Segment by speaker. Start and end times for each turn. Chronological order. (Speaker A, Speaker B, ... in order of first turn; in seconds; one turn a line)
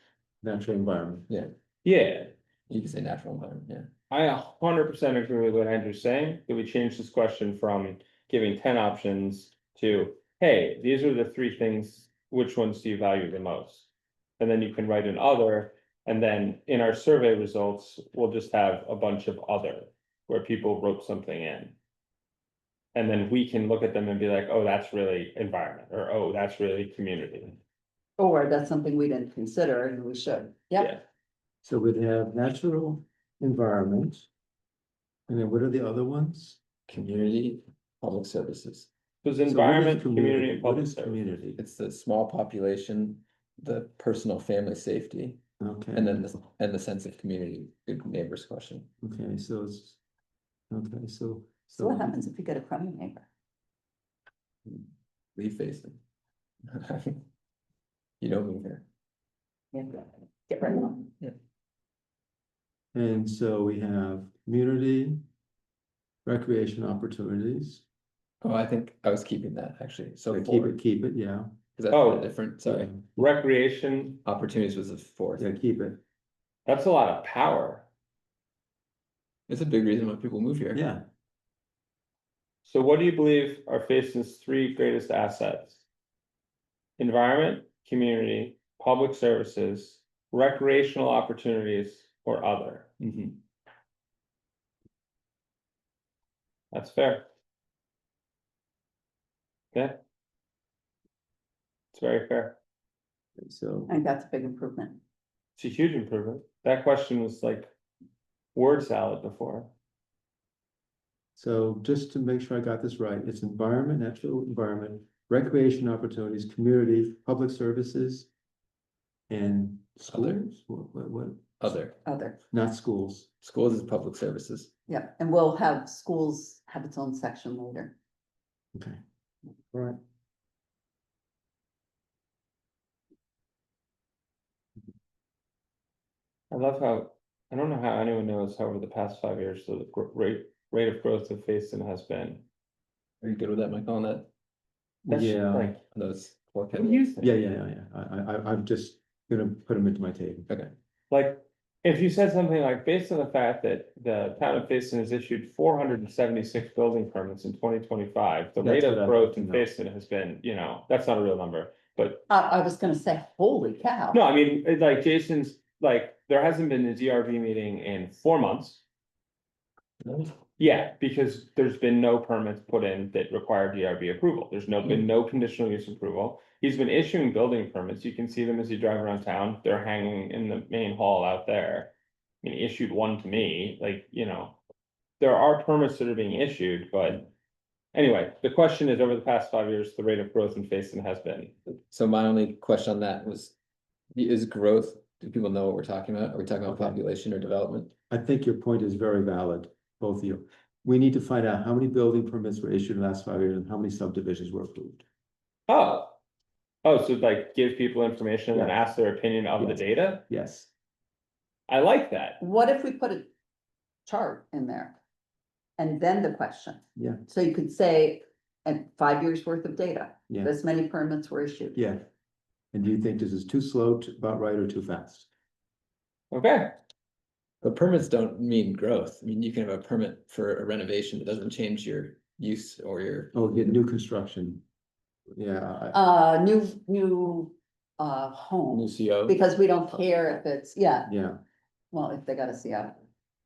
Speaker A: 0.4-1.3
Speaker B: 1.8-2.3
Speaker C: 2.7-3.9
Speaker B: 4.1-13.9
Speaker B: 14.4-21.7
Speaker B: 22.9-27.6
Speaker D: 28.2-30.9
Speaker A: 31.6-34.3
Speaker A: 35.3-36.6
Speaker C: 36.9-38.9
Speaker B: 39.2-41.2
Speaker A: 39.5-41.6
Speaker C: 41.6-45.4
Speaker A: 45.6-46.2
Speaker C: 45.9-48.9
Speaker A: 49.0-50.0
Speaker A: 50.7-52.2
Speaker D: 51.7-53.3
Speaker C: 55.3-56.0
Speaker C: 56.7-57.2
Speaker C: 58.2-58.8
Speaker D: 59.7-61.0
Speaker A: 62.9-65.2
Speaker A: 66.2-67.8
Speaker C: 68.4-70.8
Speaker A: 70.3-71.5
Speaker C: 71.8-72.9
Speaker B: 71.9-72.3
Speaker A: 72.6-73.1
Speaker B: 73.2-74.2
Speaker C: 74.2-75.5
Speaker A: 75.4-76.0
Speaker B: 76.7-77.9
Speaker C: 79.5-80.8
Speaker A: 80.7-81.0
Speaker B: 82.6-85.8
Speaker B: 87.0-93.3
Speaker B: 96.7-97.2
Speaker B: 99.7-100.0
Speaker B: 101.9-102.6
Speaker A: 103.4-104.0
Speaker D: 103.9-105.0
Speaker B: 105.6-107.7
Speaker B: 108.5-109.7
Speaker A: 111.3-118.3
Speaker A: 119.3-121.8
Speaker C: 120.1-120.4
Speaker C: 121.6-121.9
Speaker D: 122.0-122.4
Speaker A: 122.5-123.3
Speaker C: 123.4-124.7
Speaker D: 124.9-127.9
Speaker A: 128.7-129.0
Speaker A: 129.7-130.0
Speaker B: 136.5-142.4
Speaker C: 143.2-144.3
Speaker B: 145.1-145.8
Speaker A: 145.1-145.8
Speaker C: 145.9-147.3
Speaker B: 146.7-147.2
Speaker A: 147.2-150.5
Speaker B: 151.1-162.3
Speaker A: 158.6-159.7
Speaker D: 162.3-164.2
Speaker B: 164.1-168.8
Speaker C: 170.0-170.4
Speaker B: 170.6-181.9
Speaker B: 182.4-184.6
Speaker B: 185.2-187.3
Speaker B: 187.9-191.6
Speaker C: 191.9-193.5
Speaker C: 194.1-197.9
Speaker A: 196.7-197.0
Speaker A: 198.1-205.0
Speaker B: 205.7-206.2
Speaker B: 206.8-210.2
Speaker A: 208.5-208.8
Speaker A: 209.6-210.7
Speaker B: 211.7-212.4
Speaker D: 212.4-213.3
Speaker D: 214.1-215.0
Speaker D: 215.8-221.8
Speaker A: 216.9-217.2
Speaker A: 221.7-222.0
Speaker A: 222.7-225.3
Speaker B: 226.3-226.8
Speaker C: 227.6-233.3
Speaker A: 233.3-234.6
Speaker A: 235.3-236.0
Speaker D: 235.9-241.1
Speaker C: 238.7-239.4
Speaker A: 241.1-241.4
Speaker D: 241.9-243.0